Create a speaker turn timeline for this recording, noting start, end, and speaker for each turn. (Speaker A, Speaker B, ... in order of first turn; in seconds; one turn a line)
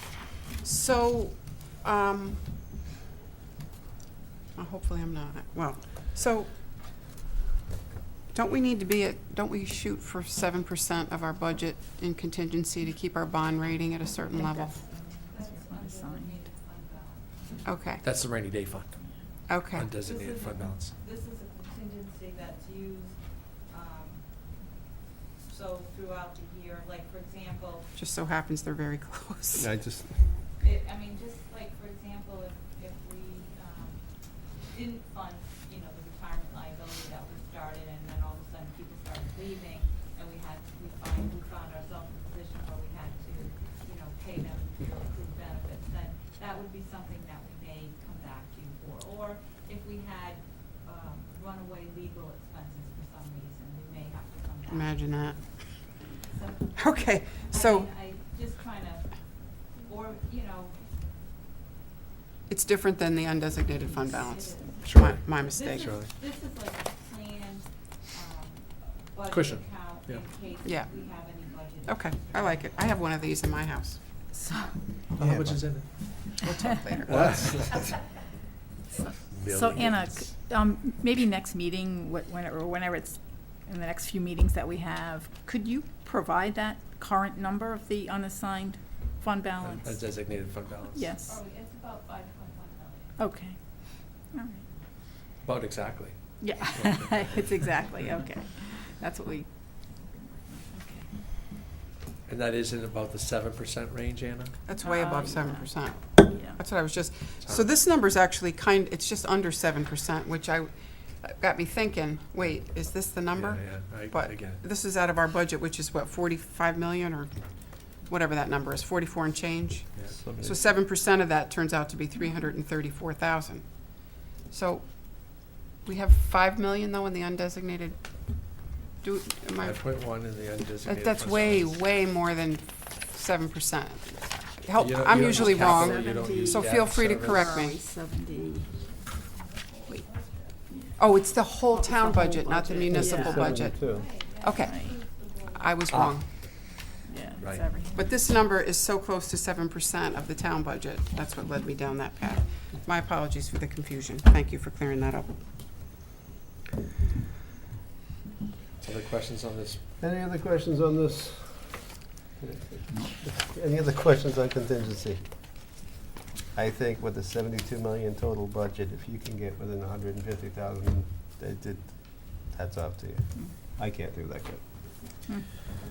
Speaker A: 0.6-2.5
Speaker A: 4.5-6.7
Speaker A: 8.3-14.8
Speaker B: 14.3-16.4
Speaker C: 15.3-17.7
Speaker A: 17.6-18.0
Speaker D: 18.0-19.0
Speaker A: 19.5-19.9
Speaker D: 19.7-20.9
Speaker C: 20.0-24.7
Speaker C: 25.4-27.9
Speaker A: 27.9-29.7
Speaker E: 29.6-30.2
Speaker C: 30.1-55.4
Speaker A: 54.7-56.1
Speaker C: 56.1-60.9
Speaker A: 56.7-57.9
Speaker A: 62.5-66.0
Speaker C: 64.3-72.9
Speaker D: 64.8-66.1
Speaker D: 69.3-70.3
Speaker A: 70.6-71.0
Speaker A: 71.8-74.0
Speaker B: 74.3-74.8
Speaker D: 75.1-76.3
Speaker E: 75.2-76.0
Speaker A: 76.4-77.5
Speaker D: 77.0-78.1
Speaker B: 79.0-90.2
Speaker D: 79.2-80.3
Speaker D: 89.6-91.1
Speaker B: 90.9-91.4
Speaker C: 91.2-93.2
Speaker B: 93.2-94.7
Speaker D: 95.4-98.0
Speaker B: 96.4-101.1
Speaker D: 102.2-104.6
Speaker A: 104.7-130.3
Speaker B: 104.8-106.6
Speaker D: 107.4-107.7
Speaker D: 113.3-114.6
Speaker D: 120.0-120.6
Speaker E: 120.2-120.5
Speaker D: 129.6-131.8
Speaker A: 130.8-137.8
Speaker D: 134.8-137.7
Speaker B: 135.1-138.9
Speaker C: 138.3-140.7
Speaker B: 140.7-141.1
Speaker A: 141.0-146.3
Speaker B: 141.7-143.7
Speaker E: 142.9-144.2
Speaker C: 143.8-148.2
Speaker B: 144.5-145.1
Speaker D: 145.9-146.7
Speaker B: 147.1-148.1
Speaker D: 147.4-147.7
Speaker A: 147.9-155.4
Speaker D: 158.8-159.8
Speaker E: 160.0-165.3
Speaker E: 166.5-175.0